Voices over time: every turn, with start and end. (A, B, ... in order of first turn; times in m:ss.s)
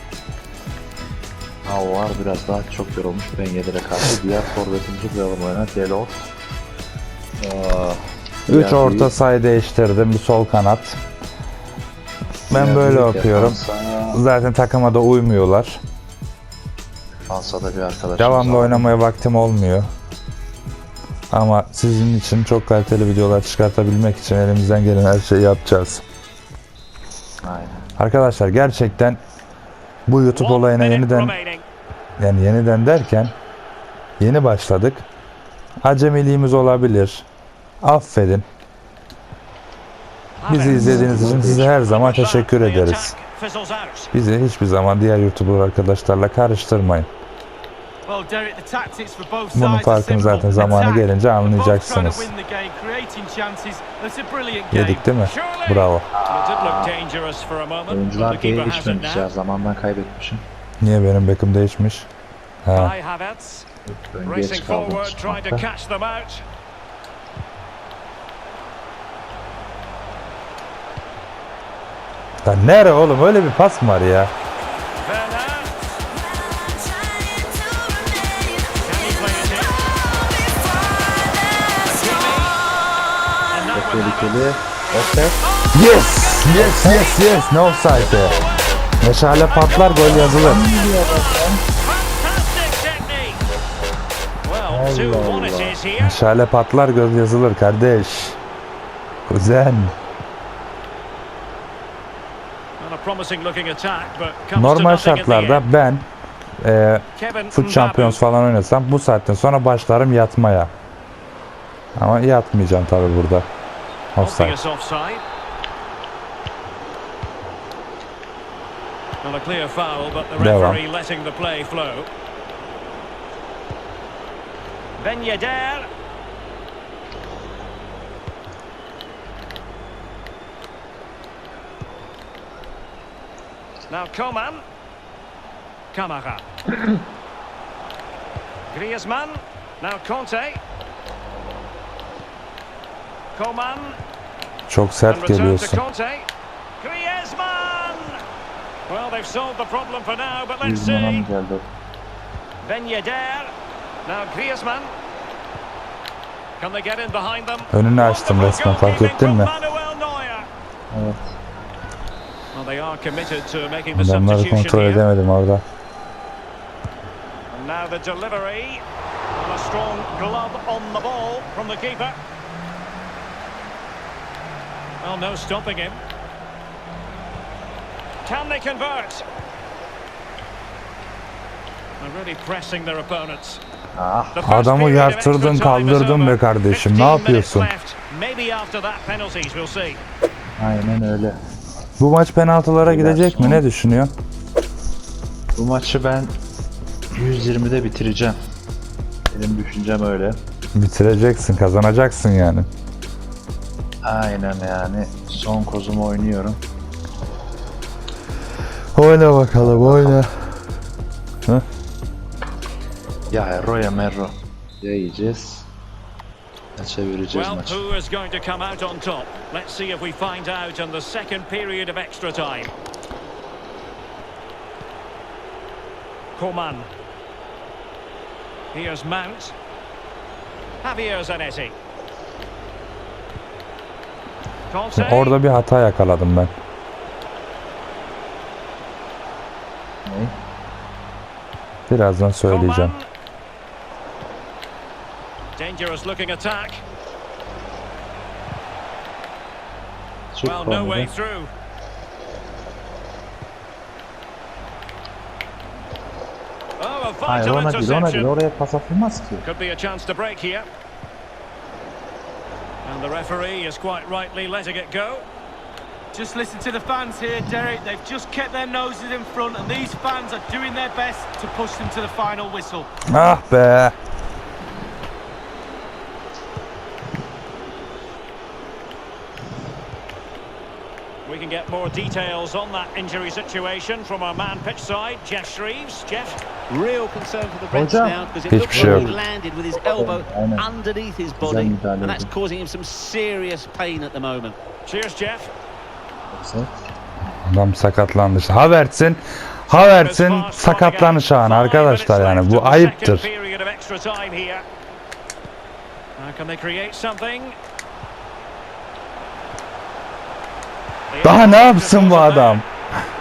0:01.6-0:06.3 A
0:07.4-0:09.1 A
0:08.5-0:11.0 B
0:12.5-0:13.6 B
0:12.5-0:14.2 A
0:14.1-0:15.8 B
0:17.3-0:18.9 A
0:18.2-0:19.9 B
0:21.3-0:26.0 B
0:27.4-0:27.8 A
0:28.0-0:29.2 B
0:30.1-0:31.3 B
0:30.3-0:31.6 C
0:32.2-0:33.3 B
0:34.2-0:35.0 B
0:35.8-0:37.2 B
0:37.8-0:38.4 B
0:40.4-0:44.1 C
0:40.5-0:43.1 B
0:40.7-0:41.7 A
0:44.1-0:47.1 B
0:48.0-0:55.0 D
0:49.5-0:52.3 B
0:54.7-0:56.1 B
0:55.2-0:59.3 C
0:56.1-0:56.9 A
0:57.9-1:00.4 A
1:00.8-1:02.1 B
1:02.6-1:02.9 B
1:02.7-1:03.7 C
1:03.9-1:05.6 A
1:04.2-1:06.4 C
1:12.4-1:14.3 B
1:15.0-1:16.0 C
1:18.8-1:19.8 C
1:21.7-1:22.6 C
1:23.5-1:24.5 C
1:23.7-1:25.3 A
1:25.4-1:33.4 C
1:25.7-1:28.4 B
1:29.0-1:30.6 B
1:30.3-1:31.6 A
1:34.4-1:36.2 C
1:34.7-1:35.8 A
1:36.0-1:38.4 B
1:39.3-1:39.9 B
1:42.8-1:45.6 C
1:44.6-1:46.0 B
1:46.6-1:50.7 B
1:47.2-1:48.2 C
1:52.0-1:53.5 B
1:54.1-1:54.6 B
1:54.2-1:55.2 C
1:59.2-2:02.1 C
2:00.4-2:00.8 B
2:05.0-2:05.9 C
2:13.9-2:14.6 C
2:15.9-2:16.4 C
2:18.7-2:20.6 C
2:23.3-2:24.0 C
2:24.7-2:25.8 B
2:25.1-2:26.3 C
2:26.8-2:28.2 C
2:28.9-2:31.3 C
2:30.6-2:31.6 A
2:32.6-2:33.5 C
2:34.0-2:34.9 C
2:36.6-2:40.5 C
2:37.7-2:39.5 B
2:40.9-2:41.4 A
2:42.5-2:45.0 C
2:43.9-2:45.6 B
2:47.5-2:48.8 C
2:49.3-2:52.2 C
2:55.0-2:56.0 C
2:58.2-2:59.2 C
3:02.0-3:03.6 C
3:04.0-3:04.4 A
3:04.3-3:10.0 C
3:04.4-3:07.7 B
3:10.6-3:11.4 A
3:12.0-3:14.1 B
3:12.8-3:13.6 A
3:15.5-3:16.3 A
3:17.1-3:18.4 A
3:19.3-3:20.4 A
3:20.7-3:22.7 B
3:24.0-3:26.6 A
3:28.9-3:30.4 B
3:29.6-3:30.2 A
3:33.3-3:35.6 A
3:36.8-3:37.8 A
3:37.3-3:42.7 C
3:46.4-3:46.9 C
3:48.7-3:49.5 C
3:50.8-3:51.7 C
3:54.7-3:55.4 C
3:54.9-3:56.5 B
4:00.0-4:00.3 A
4:01.9-4:02.9 B
4:02.4-4:03.0 C
4:05.6-4:06.8 C
4:10.3-4:11.1 A
4:10.4-4:11.5 C
4:16.8-4:18.3 C
4:17.2-4:19.4 A
4:19.4-4:20.7 C
4:22.8-4:25.2 C
4:26.1-4:32.9 D
4:33.1-4:34.0 B
4:41.2-4:46.4 C
4:46.7-4:54.6 E
4:47.7-4:50.7 A
4:48.5-4:49.1 B
4:51.4-4:52.3 A
4:54.8-4:55.5 C
4:56.3-4:56.7 A
4:57.4-5:03.3 B
4:59.7-5:04.6 C
5:06.2-5:07.6 C
5:11.1-5:12.6 C
5:11.2-5:12.6 B